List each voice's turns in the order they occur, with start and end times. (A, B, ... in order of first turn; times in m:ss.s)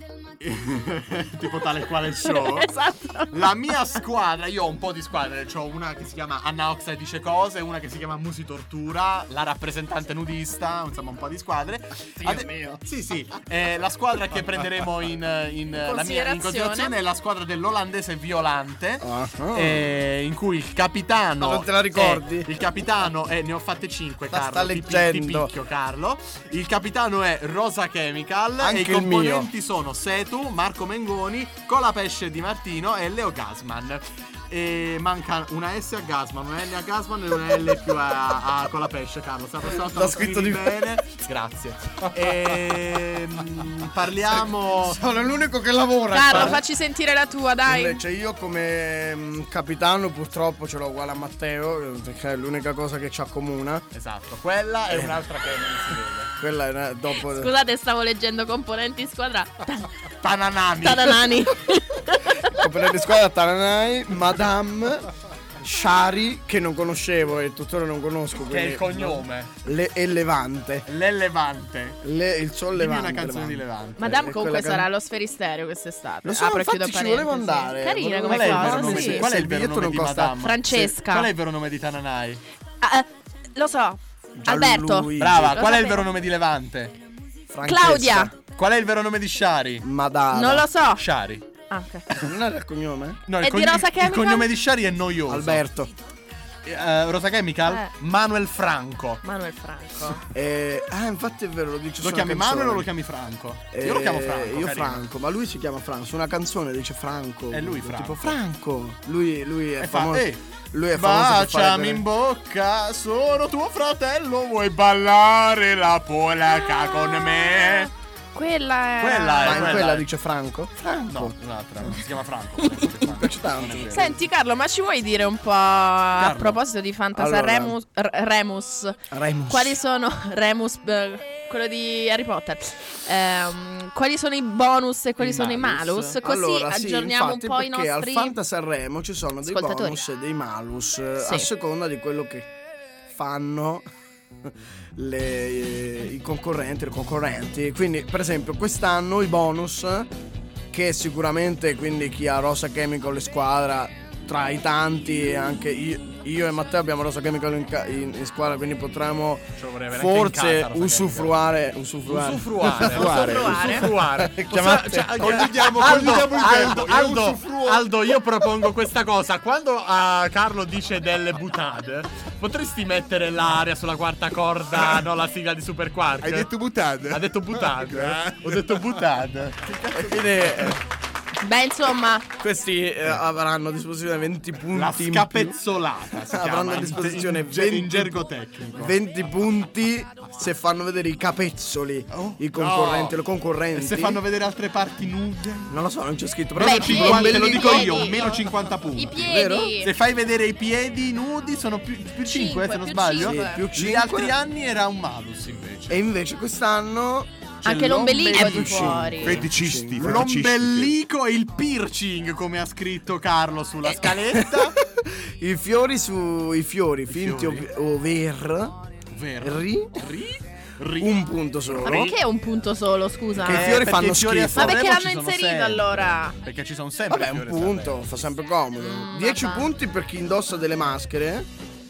0:00.4-0:02.7 A
0:02.2-0:03.6 B
0:03.3-0:45.0 A
0:12.2-0:12.8 C
0:15.8-0:16.9 B
0:19.0-0:19.9 C
0:21.4-0:22.5 C
0:24.3-0:25.5 C
0:28.6-0:29.5 C
0:39.8-0:40.8 C
0:44.8-0:46.6 C
0:46.1-0:48.0 B
0:46.3-0:46.6 A
0:47.7-0:53.8 C
0:53.9-0:56.3 A
0:54.9-0:55.2 C
0:56.4-0:57.5 C
0:57.2-0:59.9 B
1:00.2-1:01.3 A
1:00.8-1:02.6 B
1:02.5-1:05.1 C
1:05.6-1:10.9 C
1:08.4-1:09.5 A
1:10.9-1:12.0 A
1:12.0-1:14.9 C
1:12.7-1:14.1 A
1:14.0-1:19.3 B
1:16.2-1:20.4 C
1:18.2-1:22.4 A
1:20.4-1:21.3 B
1:22.8-1:26.1 B
1:24.4-1:25.6 C
1:25.2-1:27.0 A
1:27.5-1:28.3 C
1:27.6-1:28.3 B
1:28.5-1:29.8 A
1:29.8-1:30.7 C
1:30.3-1:31.0 B
1:31.0-1:31.5 A
1:31.7-1:32.1 B
1:32.2-1:33.2 C
1:33.3-1:35.6 A
1:33.4-1:34.5 B
1:35.3-1:35.9 C
1:36.6-1:39.2 A
1:39.2-1:40.2 B
1:40.3-1:42.9 C
1:42.0-1:45.0 A
1:43.7-1:52.0 C
1:47.5-1:48.4 A
1:49.8-1:50.4 A
1:50.9-1:57.9 A
1:58.4-1:59.8 B
1:59.0-2:00.1 A
1:59.4-2:01.4 C
2:01.1-2:04.2 A
2:03.0-2:04.2 C
2:03.9-2:09.0 B
2:06.2-2:06.6 A
2:07.2-2:07.8 C
2:09.1-2:09.8 C
2:09.5-2:18.4 B
2:15.2-2:16.2 A
2:16.2-2:22.5 C
2:19.4-2:20.0 B
2:21.2-2:21.5 B
2:23.1-2:23.8 C
2:24.4-2:30.1 C
2:30.7-2:43.0 C
2:39.6-2:41.4 A
2:42.0-2:56.5 A
2:42.7-2:43.8 D
2:42.9-2:43.9 B
2:44.0-2:45.5 C
2:45.2-2:47.9 D
2:56.2-2:59.0 D
2:57.1-3:00.8 A
2:59.9-3:00.8 C
3:01.4-3:02.3 B
3:02.4-3:05.6 C
3:04.7-3:09.0 A
3:06.3-3:08.2 C
3:08.7-3:14.2 C
3:12.5-3:13.2 D
3:13.8-3:15.8 A
3:15.7-3:18.1 C
3:16.6-3:26.0 A
3:16.6-3:18.4 B
3:19.0-3:19.9 B
3:19.2-3:19.7 C
3:22.3-3:23.6 B
3:23.2-3:24.3 C
3:25.9-3:30.2 C
3:27.6-3:29.4 B
3:27.6-3:29.4 A
3:29.1-3:30.9 D
3:30.0-3:34.8 A
3:34.2-3:38.8 C
3:37.1-3:37.7 A
3:39.1-3:42.1 A
3:39.4-3:40.1 C
3:41.0-3:42.2 C
3:41.8-3:43.8 B
3:43.4-3:44.8 C
3:43.4-3:48.0 A
3:44.6-3:46.4 B
3:47.1-3:51.5 C
3:48.8-3:49.7 B